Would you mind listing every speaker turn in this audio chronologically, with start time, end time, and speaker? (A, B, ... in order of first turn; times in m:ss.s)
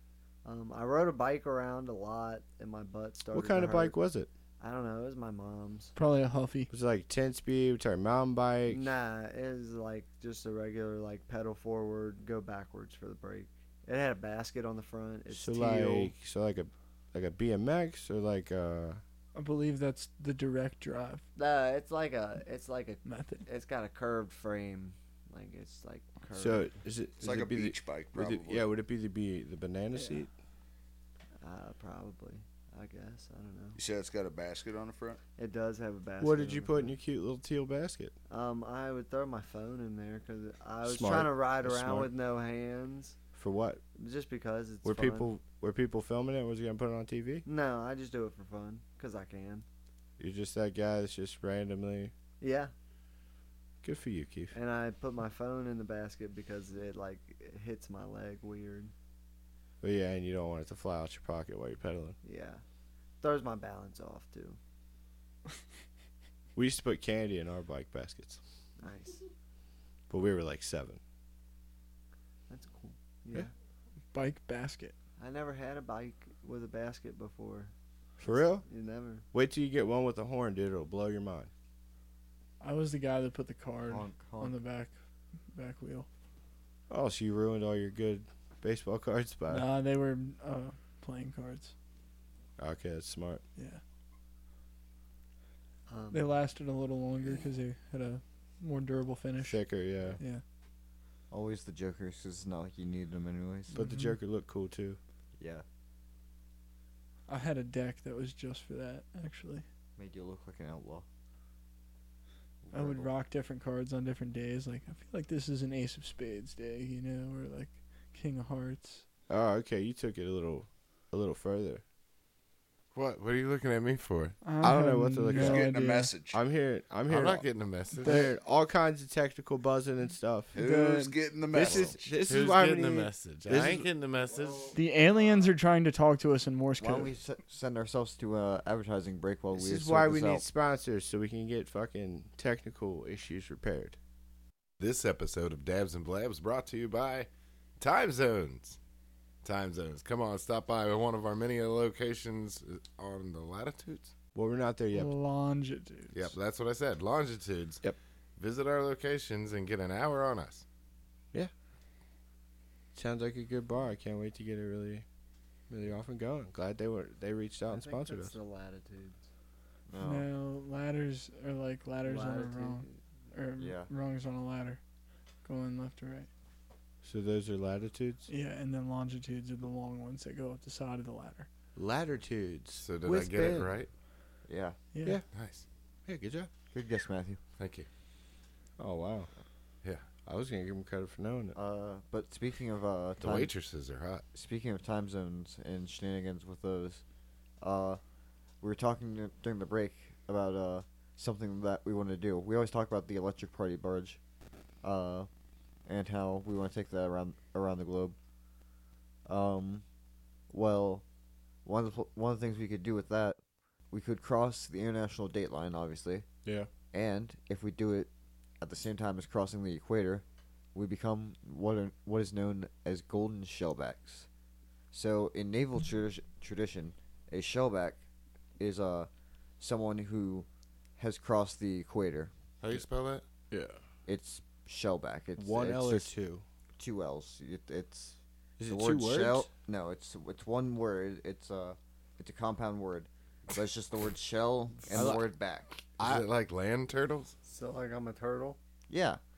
0:00.4-0:04.0 A
0:03.3-0:04.3 B
0:04.6-0:05.9 A
0:06.0-0:06.7 C
0:06.7-0:08.8 B
0:08.7-0:16.1 A
0:15.3-0:19.0 B
0:19.3-0:21.2 C
0:21.4-0:26.8 A
0:23.0-0:23.4 C
0:26.3-0:30.3 B
0:27.2-0:28.7 D
0:29.9-0:30.2 C
0:31.4-0:33.8 A
0:33.7-0:35.2 D
0:35.4-0:37.0 A
0:36.2-0:38.1 B
0:38.3-0:43.2 A
0:40.8-0:42.1 B
0:43.3-0:43.8 B
0:44.0-0:45.3 A
0:44.8-0:47.4 B
0:47.4-0:49.6 A
0:50.2-0:52.1 B
0:52.4-0:52.7 A
0:53.8-0:54.5 B
0:54.5-0:58.9 A
0:59.8-1:02.2 B
1:02.2-1:02.6 A
1:03.2-1:04.6 A
1:06.5-1:08.4 B
1:08.8-1:09.2 A
1:10.1-1:11.0 B
1:12.5-1:13.5 A
1:14.1-1:14.9 C
1:15.2-1:19.2 A
1:18.2-1:18.6 B
1:19.3-1:21.5 B
1:22.6-1:24.9 C
1:23.9-1:24.6 E
1:25.5-1:26.1 C
1:26.9-1:29.7 B
1:29.5-1:31.7 C
1:32.6-1:33.4 B
1:35.9-1:36.2 A
1:36.1-1:39.7 C
1:39.4-1:40.2 B
1:41.3-1:43.8 E
1:43.7-1:44.2 C
1:43.7-1:45.0 B
1:45.4-1:45.6 E
1:47.3-1:49.6 C
1:50.0-1:51.0 E
1:52.6-1:53.1 E
1:52.7-1:59.0 C
1:59.3-2:01.8 B
2:02.9-2:04.4 F
2:04.4-2:06.1 C
2:04.6-2:05.7 B
2:05.3-2:06.4 D
2:06.3-2:07.4 B
2:07.1-2:08.2 F
2:08.0-2:10.5 B
2:08.0-2:08.3 C
2:10.5-2:12.2 D
2:10.6-2:11.2 C
2:11.5-2:13.9 B
2:11.7-2:14.7 F
2:14.7-2:17.1 C
2:16.8-2:20.4 E
2:19.5-2:24.0 B
2:24.8-2:27.3 F
2:27.8-2:28.8 F
2:29.4-2:34.1 F
2:34.3-2:35.1 B
2:34.9-2:36.1 C
2:36.1-2:37.8 F
2:38.4-2:40.6 F
2:42.9-2:45.0 B
2:45.7-2:48.4 B
2:47.7-2:49.2 A
2:49.9-2:50.3 E
2:50.0-2:54.8 C
2:52.0-2:53.0 A
2:53.6-2:53.9 E
2:55.4-2:56.3 C
2:57.0-2:58.3 B
2:58.3-3:01.5 C
3:01.8-3:03.7 B
3:02.8-3:03.9 F
3:04.5-3:04.8 E
3:04.9-3:05.2 C
3:05.3-3:05.6 F
3:06.0-3:06.5 B
3:06.7-3:07.4 E
3:07.6-3:07.9 F
3:08.8-3:09.3 B
3:10.2-3:11.6 B
3:11.5-3:13.5 E
3:13.2-3:14.2 F
3:14.3-3:17.0 E
3:17.6-3:18.0 E
3:18.6-3:24.2 E
3:24.8-3:25.3 E
3:25.8-3:28.1 E
3:29.2-3:29.8 E
3:30.5-3:31.0 E
3:31.6-3:33.4 E
3:33.9-3:36.2 E
3:36.9-3:38.1 E
3:38.6-3:44.3 E
3:44.9-3:48.0 E
3:48.6-3:49.1 E
3:49.6-3:52.8 E
3:52.6-3:53.2 F
3:53.5-3:53.8 B
3:54.0-3:56.1 E
3:55.4-3:56.4 B
3:56.8-4:05.8 E
3:58.6-3:59.5 B
4:04.9-4:05.2 B
4:06.0-4:07.3 F
4:07.4-4:08.6 A
4:08.9-4:09.2 E